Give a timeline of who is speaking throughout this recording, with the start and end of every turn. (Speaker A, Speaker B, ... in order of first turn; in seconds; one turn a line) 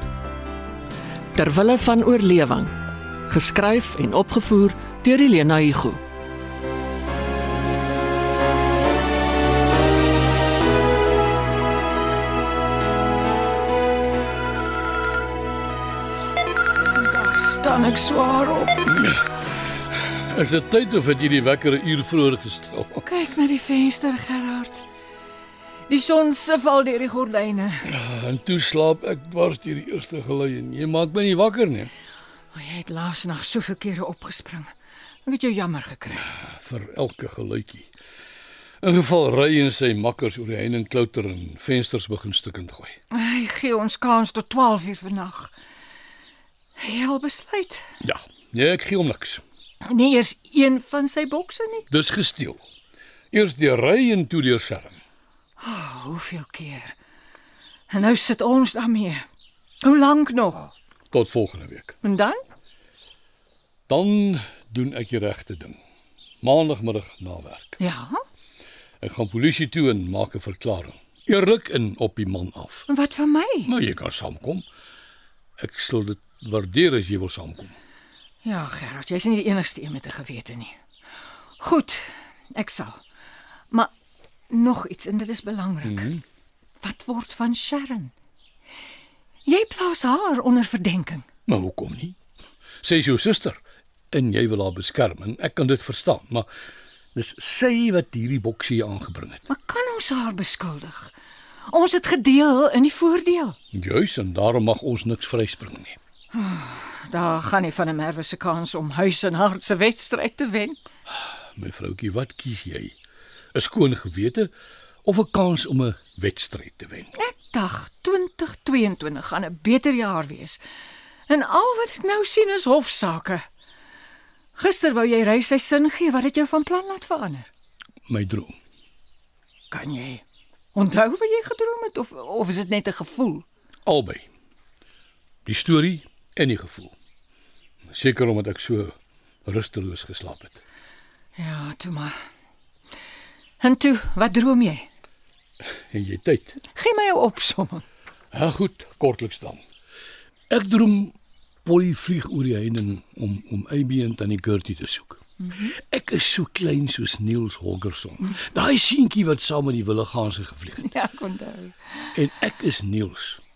Speaker A: 1.4-2.7
Speaker A: 3.3-6.0
Speaker B: 16.9-19.0
Speaker C: 20.1-23.0
Speaker B: 23.0-24.9
Speaker B: 25.9-27.9
Speaker C: 27.9-31.9
Speaker B: 32.5-34.7
Speaker B: 35.2-36.3
Speaker C: 36.4-37.9
Speaker C: 38.8-43.0
Speaker B: 43.1-45.5
Speaker B: 46.8-47.9
Speaker C: 48.0-49.4
Speaker B: 49.8-51.9
Speaker C: 51.9-52.6
Speaker C: 53.3-55.0
Speaker B: 55.6-57.0
Speaker B: 57.9-59.2
Speaker B: 59.8-60.7
Speaker C: 61.1-62.0
Speaker B: 62.0-62.4
Speaker C: 63.9-65.8
Speaker C: 66.4-67.8
Speaker B: 67.8-68.2
Speaker C: 69.0-72.9
Speaker B: 72.9-73.7
Speaker C: 73.7-74.6
Speaker C: 75.6-77.8
Speaker B: 78.4-80.8
Speaker B: 81.6-83.0
Speaker B: 84.5-86.1
Speaker C: 85.8-86.2
Speaker B: 86.8-88.1
Speaker B: 89.5-91.3
Speaker C: 91.5-92.2
Speaker C: 92.8-93.6
Speaker C: 94.1-96.5
Speaker C: 97.2-99.5
Speaker B: 99.5-101.1
Speaker B: 101.7-103.6
Speaker C: 103.7-106.0
Speaker B: 106.3-110.8
Speaker C: 111.5-113.0
Speaker C: 113.5-114.5
Speaker C: 115.0-117.1
Speaker B: 117.2-120.6
Speaker B: 121.3-123.4
Speaker B: 124.6-127.5
Speaker C: 128.1-128.6
Speaker B: 129.7-130.2
Speaker B: 130.7-133.5
Speaker C: 133.9-134.3
Speaker C: 135.5-136.9
Speaker C: 137.9-138.9
Speaker C: 139.5-140.6
Speaker B: 141.4-142.1
Speaker B: 143.6-144.9
Speaker C: 145.9-146.6
Speaker B: 146.7-147.8
Speaker C: 148.3-149.6
Speaker C: 150.5-151.1
Speaker C: 151.7-160.8
Speaker B: 160.8-162.1
Speaker C: 162.2-163.4